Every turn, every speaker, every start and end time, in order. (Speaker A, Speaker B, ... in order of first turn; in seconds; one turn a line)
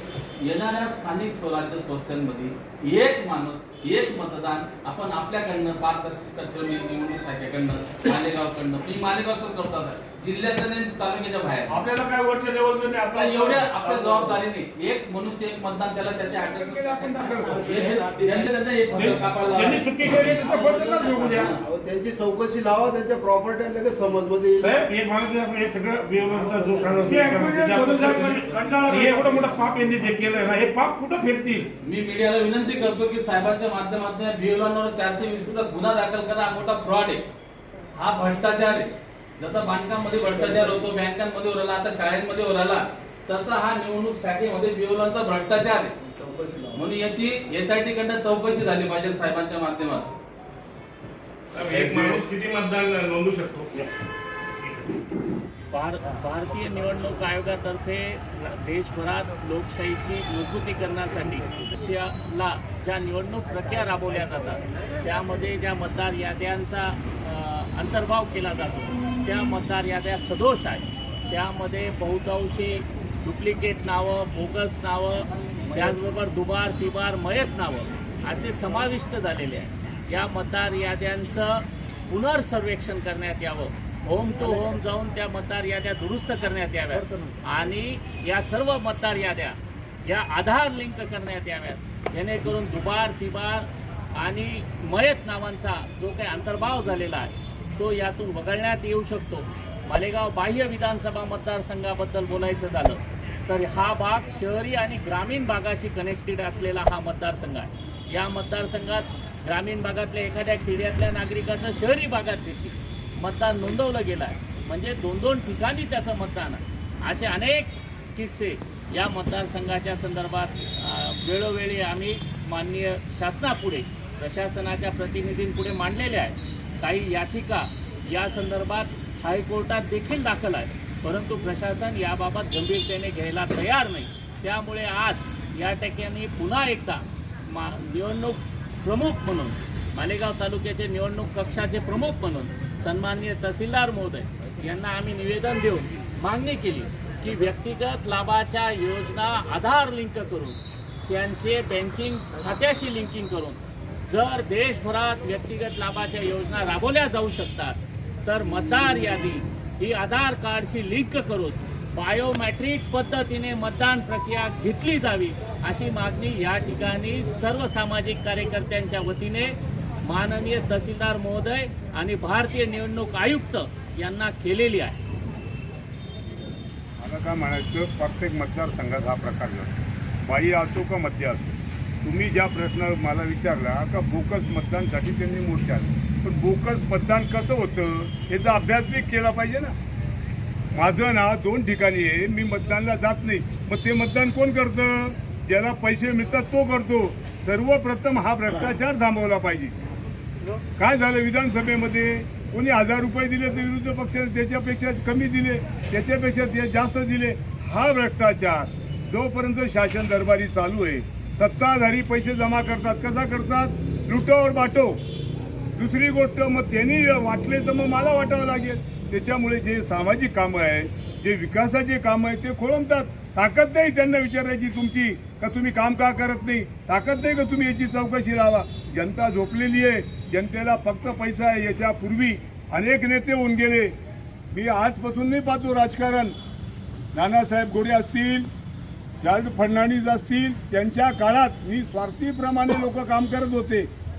Speaker A: 0.4-11.8
Speaker B: 11.7-14.4
Speaker A: 13.1-21.6
Speaker C: 16.5-17.6
Speaker D: 17.3-18.4
Speaker C: 18.8-21.6
Speaker D: 21.6-24.8
Speaker C: 24.6-31.7
Speaker D: 26.8-27.4
Speaker B: 27.1-29.3
Speaker A: 28.2-29.9
Speaker A: 31.8-37.2
Speaker A: 37.9-45.9
Speaker D: 40.4-40.8
Speaker D: 46.0-46.9
Speaker A: 46.7-50.1
Speaker E: 51.5-53.9
Speaker F: 55.7-175.0
Speaker G: 177.0-179.7
Speaker G: 180.2-189.7
Speaker G: 190.7-199.7
Speaker G: 200.8-215.0
Speaker G: 215.8-233.9
Speaker G: 234.5-236.4
Speaker G: 237.1-238.5
Speaker G: 239.2-243.9